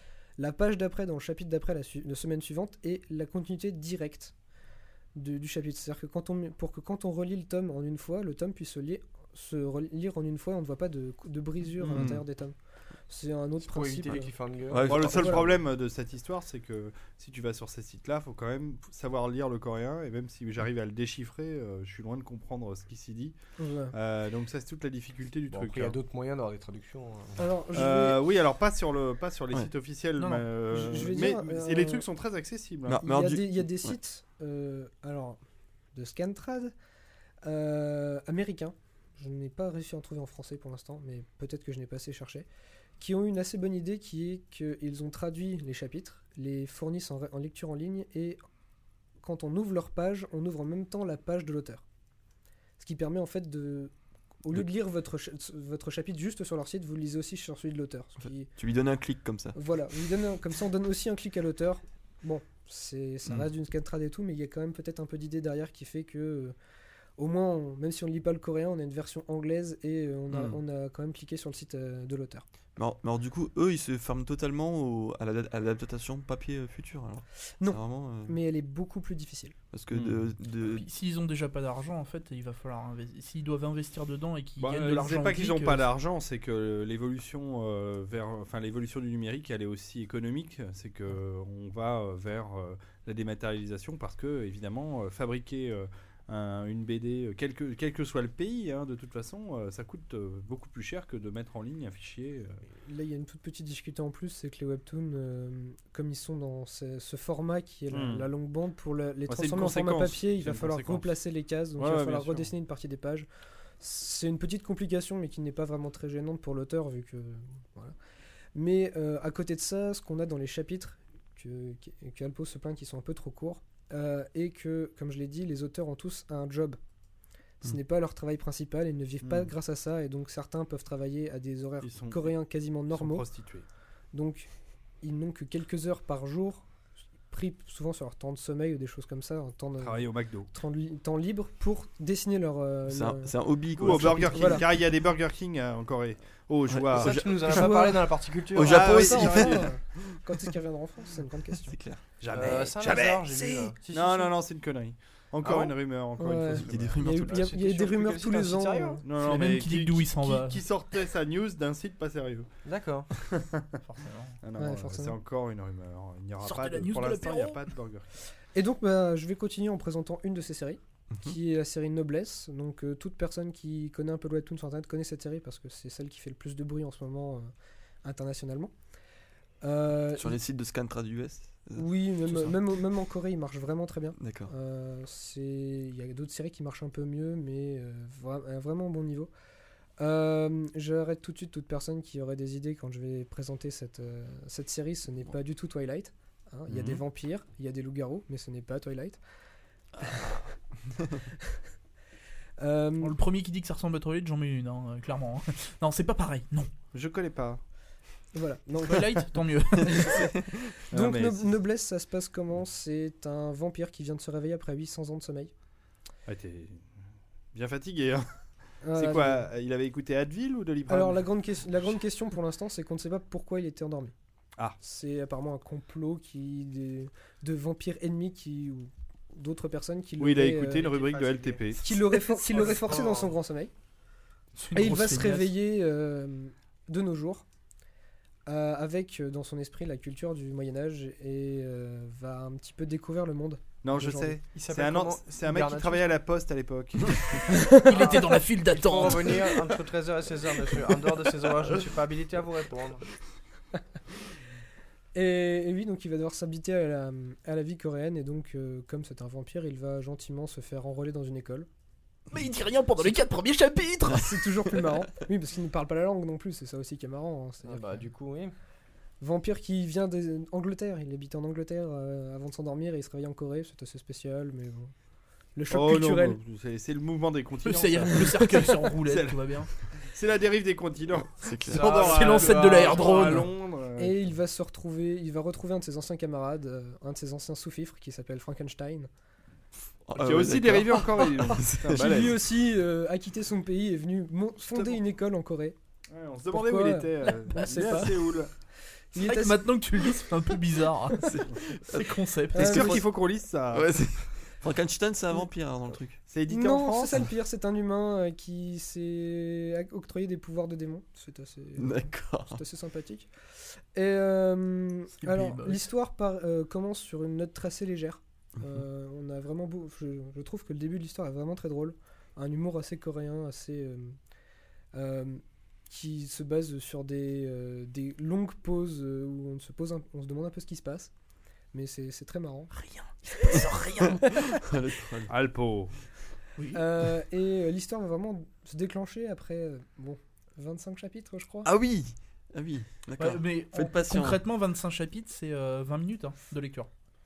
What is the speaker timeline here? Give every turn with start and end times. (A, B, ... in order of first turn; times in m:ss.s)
0:00.4-0:04.3 A
0:05.1-0:12.5 A
0:11.8-0:12.2 B
0:11.9-0:12.2 C
0:13.1-0:14.3 A
0:13.6-0:15.6 D
0:14.7-0:15.2 C
0:14.8-0:23.4 B
0:15.1-0:15.4 A
0:23.6-0:23.9 A
0:23.9-0:26.0 B
0:25.5-0:27.4 D
0:27.4-0:28.2 A
0:27.7-0:33.0 B
0:30.2-0:30.4 E
0:30.7-0:32.0 A
0:32.8-0:33.9 C
0:33.0-0:35.4 A
0:35.9-0:36.7 A
0:37.4-0:42.5 A
0:43.0-0:48.4 A
0:49.2-0:51.8 A
0:52.8-0:53.9 A
0:54.4-0:58.5 A
0:58.2-0:59.6 C
0:59.5-1:06.5 A
1:07.2-1:12.4 A
1:10.3-1:10.6 C
1:12.8-1:18.3 C
1:17.6-1:19.6 A
1:19.7-1:20.9 C
1:19.9-1:20.3 B
1:20.6-1:25.9 E
1:24.6-1:42.6 B
1:42.8-1:53.3 A
1:47.9-1:48.3 B
1:49.3-1:51.1 B
1:51.8-1:52.5 B
1:53.8-1:57.9 A
1:58.5-2:06.8 A
2:07.6-2:13.2 A
2:09.2-2:09.5 B
2:11.8-2:12.3 B
2:12.9-2:13.6 B
2:14.1-2:14.5 A
2:15.0-2:16.7 A
2:17.3-2:24.6 A
2:19.8-2:20.5 B
2:22.9-2:24.7 C
2:23.8-2:27.4 B
2:26.7-2:27.9 C
2:26.9-2:29.1 D
2:27.5-2:28.1 A
2:28.5-2:29.9 C
2:28.6-2:29.8 B
2:28.6-2:31.8 A
2:31.7-2:32.0 C
2:32.2-2:33.3 B
2:32.3-2:34.3 D
2:33.2-2:33.7 A
2:33.9-2:37.4 B
2:35.4-2:35.7 D
2:36.2-2:39.0 A
2:36.7-2:37.4 C
2:37.1-2:39.0 D
2:39.0-2:42.5 B
2:39.2-2:40.6 E
2:42.6-2:43.1 D
2:43.1-2:43.8 B
2:43.8-2:44.4 E
2:44.4-2:48.1 B
2:44.6-2:45.1 A
2:46.4-2:47.6 E
2:48.5-2:57.5 A
2:58.0-2:58.7 A
2:59.6-3:00.4 A
3:00.2-3:02.6 C
3:01.7-3:09.3 A
3:04.2-3:04.5 C
3:10.0-3:19.2 A
3:16.7-3:17.0 C
3:20.0-3:20.3 A
3:22.6-3:23.2 A
3:23.0-3:26.7 E
3:26.9-3:27.6 B
3:28.3-3:29.1 A
3:28.8-3:30.3 E
3:29.8-3:30.3 A
3:30.9-3:31.6 B
3:30.9-3:35.5 A
3:36.3-3:37.0 B
3:37.5-3:41.7 B
3:38.8-3:39.4 A
3:40.9-3:44.1 A
3:44.8-3:50.9 A
3:50.2-3:51.8 B
3:50.8-3:53.4 D
3:51.8-3:53.7 A
3:54.5-3:55.5 E
3:54.7-3:57.4 A
3:58.5-4:04.4 A
4:03.8-4:07.8 B
4:04.5-4:06.1 D
4:07.5-4:07.8 A
4:07.8-4:09.6 E
4:08.0-4:13.0 D
4:15.1-4:21.7 A
4:22.3-4:24.6 E
4:24.1-4:28.1 A
4:27.6-4:28.5 D
4:29.2-4:34.9 A
4:35.5-4:36.4 A
4:35.7-4:44.2 B
4:37.6-4:39.7 E
4:41.3-4:41.9 C
4:41.7-4:43.4 D
4:41.8-4:43.5 E
4:44.0-4:49.1 A
4:50.0-4:52.2 C
4:50.1-4:52.4 B
4:51.9-4:55.8 A
4:56.1-4:58.5 B
4:56.5-4:58.2 A
4:57.6-4:58.1 E
4:59.1-5:01.3 A
4:59.2-5:02.9 E
5:01.3-5:03.0 C
5:02.5-5:03.0 A
5:02.6-5:04.1 B
5:03.7-5:06.2 C
5:06.3-5:07.3 B
5:06.5-5:24.2 A
5:11.8-5:12.6 C
5:15.2-5:15.8 E
5:24.9-5:31.1 A
5:31.7-5:32.7 A
5:32.7-5:34.5 E
5:33.3-5:33.6 A
5:34.2-5:34.5 A
5:34.6-5:35.3 C
5:35.3-5:36.0 B
5:36.7-5:41.7 A
5:41.6-5:44.4 C
5:43.2-5:46.9 E